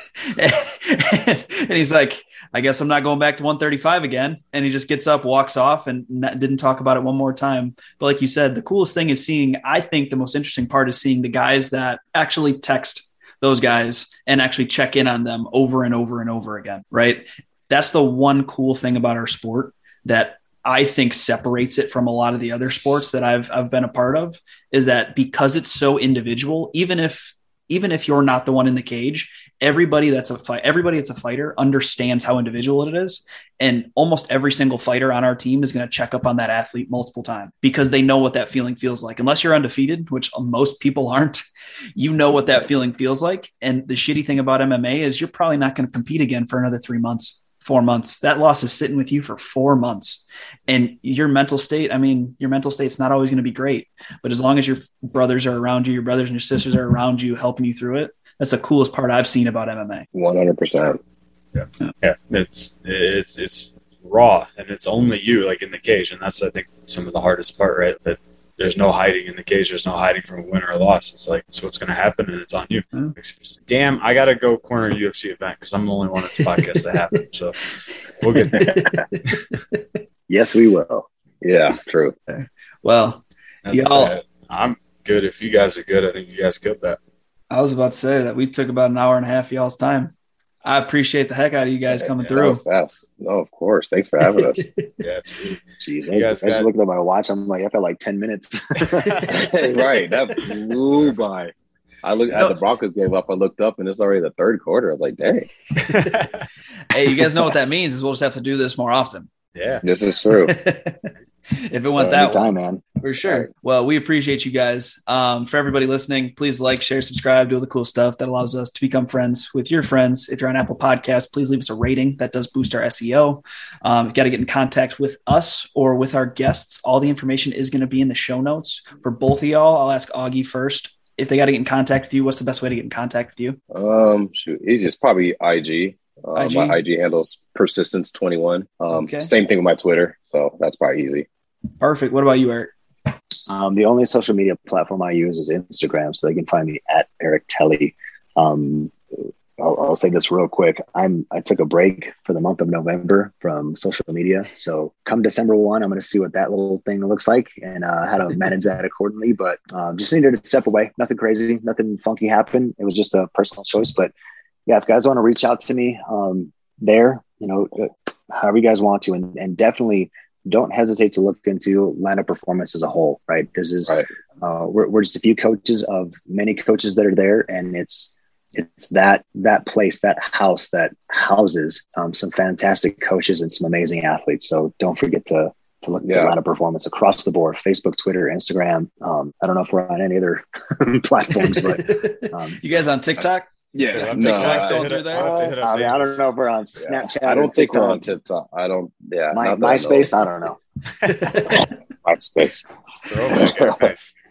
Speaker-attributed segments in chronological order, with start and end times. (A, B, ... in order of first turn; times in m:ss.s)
0:00.3-0:41.4 A
0:42.0-1:00.1 A
1:00.1-1:01.0 B
1:01.5-1:17.7 C
1:16.4-1:16.8 A
1:18.2-1:18.9 C
1:18.3-1:19.8 A
1:20.3-1:21.1 D
1:21.4-1:22.1 B
1:22.3-1:24.1 A
1:23.6-1:27.0 C
1:27.5-1:30.1 A
1:30.6-1:32.6 A
1:31.9-1:34.6 B
1:34.6-1:34.9 A
1:35.0-1:35.6 C
1:35.8-1:39.4 D
1:36.1-1:36.7 C
1:39.3-1:41.5 B
1:42.0-1:45.5 B
1:42.3-1:42.6 A
1:45.8-1:46.1 A
1:45.8-1:46.4 C
1:46.9-1:49.3 A
1:49.5-1:49.8 C
1:49.8-1:50.5 B
1:50.4-2:13.6 A
1:52.0-1:52.8 D
2:13.7-2:21.2 B
2:16.3-2:16.8 A
2:18.9-2:19.3 A
2:21.8-2:22.7 A
2:23.5-2:28.9 D
2:29.6-2:44.1 D
2:44.7-3:12.6 D
3:06.0-3:06.3 B
3:11.4-3:15.3 A
3:13.7-3:15.5 B
3:13.8-3:16.2 C
3:15.2-3:18.0 D
3:16.8-3:20.1 B
3:19.3-3:20.6 D
3:21.0-3:21.7 A
3:21.4-3:22.6 B
3:23.0-3:24.2 C
3:23.3-3:23.9 B